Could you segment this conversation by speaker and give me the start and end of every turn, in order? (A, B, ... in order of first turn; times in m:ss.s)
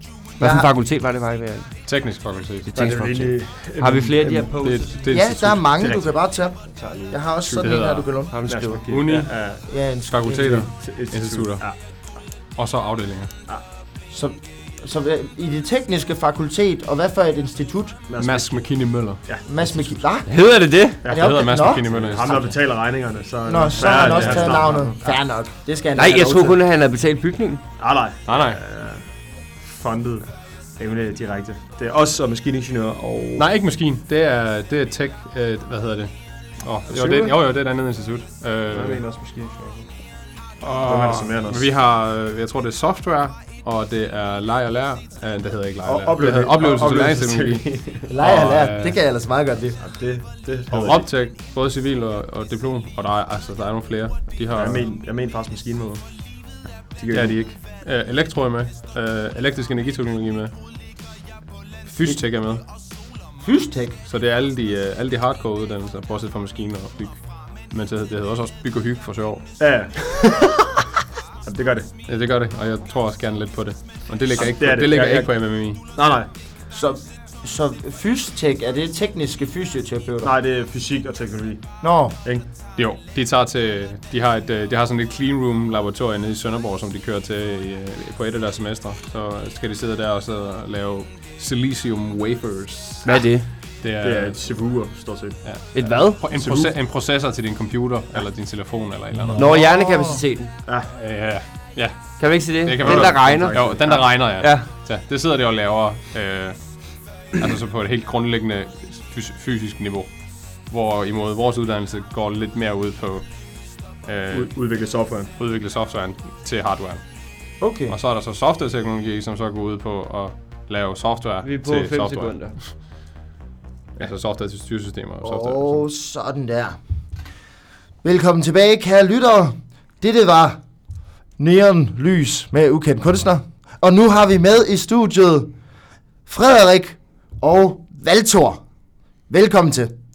0:00.4-0:01.8 A
0:00.4-0:00.7 B
0:01.9-0:02.7 C
0:02.7-0:05.1 A
0:02.7-0:04.6 D
0:04.6-0:05.7 C
0:05.1-0:08.4 B
0:05.8-0:06.2 D
0:06.7-0:07.2 D
0:07.4-0:08.1 C
0:08.3-0:08.8 A
0:08.5-0:09.6 D
0:08.9-0:09.5 C
0:09.7-0:10.7 B
0:10.1-0:13.3 C
0:10.7-0:11.8 D
0:14.1-0:18.0 B
0:18.1-0:18.6 D
0:18.2-0:19.2 C
0:19.2-0:20.0 D
0:19.5-0:20.3 B
0:20.3-0:21.0 A
0:21.0-0:25.0 D
0:21.0-0:21.9 B
0:21.1-0:22.6 C
0:23.5-0:26.6 B
0:24.0-0:24.5 C
0:26.0-0:27.6 A
0:27.8-0:33.5 D
0:28.3-0:28.6 C
0:33.4-0:39.0 C
0:36.9-0:37.4 D
0:38.7-0:39.9 D
0:40.6-0:49.0 C
0:40.8-0:41.7 D
0:45.8-0:48.1 D
0:48.1-0:49.8 B
0:49.8-0:51.1 D
0:50.7-0:54.9 C
0:54.5-0:56.0 D
0:57.0-0:57.4 D
0:57.1-1:00.5 C
1:01.8-1:02.6 C
1:03.4-1:04.0 B
1:04.1-1:09.6 C
1:09.6-1:10.5 D
1:11.4-1:11.9 D
1:12.1-1:15.8 C
1:14.3-1:15.4 D
1:16.0-1:16.3 D
1:16.7-1:20.3 B
1:20.2-1:22.4 D
1:21.8-1:22.2 B
1:22.8-1:33.3 C
1:33.0-1:33.5 A
1:33.8-1:34.4 C
1:34.0-1:35.4 D
1:35.4-1:40.2 C
1:35.7-1:36.2 A
1:36.4-1:36.7 D
1:39.3-1:40.5 A
1:40.7-1:40.9 D
1:40.9-1:50.1 C
1:42.2-1:44.7 A
1:42.8-1:44.1 D
1:50.7-1:53.4 C
1:53.9-1:54.5 C
1:54.3-1:55.3 D
1:55.4-1:57.0 C
1:57.6-1:58.0 B
1:57.9-2:02.7 C
2:01.4-2:02.6 A
2:04.0-2:05.8 C
2:05.2-2:06.8 B
2:08.0-2:10.6 B
2:11.4-2:15.5 B
2:16.3-2:18.6 B
2:19.3-2:19.9 B